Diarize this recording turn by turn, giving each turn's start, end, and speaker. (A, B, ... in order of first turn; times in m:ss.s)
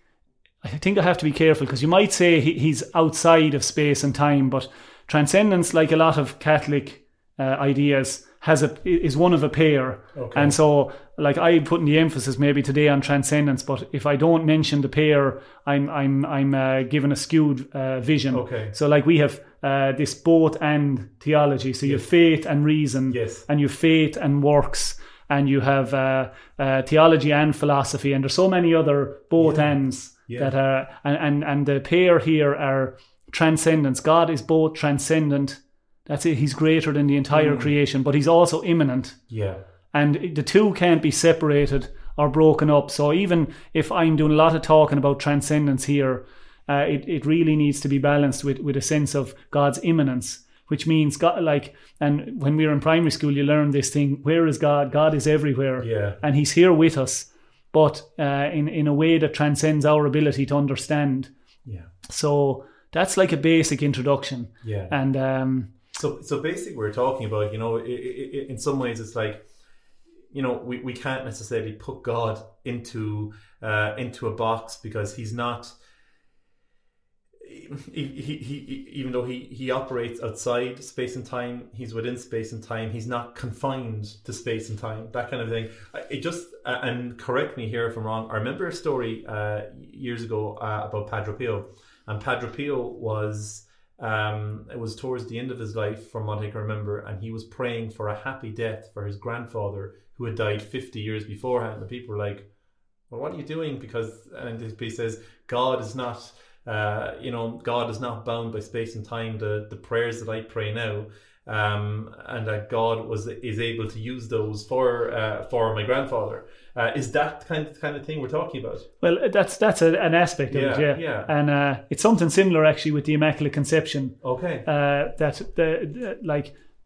0:00.6-0:39.2 A
0:10.1-0:10.6 B
0:18.3-0:18.8 B
0:23.1-0:23.5 B
0:29.4-0:29.8 B
0:30.3-0:30.5 B
0:37.3-0:37.7 B
0:39.3-0:39.6 B
0:39.9-1:01.3 A
0:55.8-0:56.2 B
1:01.6-1:01.9 B
1:02.1-1:05.7 A
1:04.6-1:05.0 B
1:05.9-1:09.4 B
1:10.3-1:15.8 B
1:17.4-1:42.5 B
1:43.1-1:58.9 B
1:59.0-2:06.6 A
2:00.5-2:01.3 B
2:04.2-2:04.6 B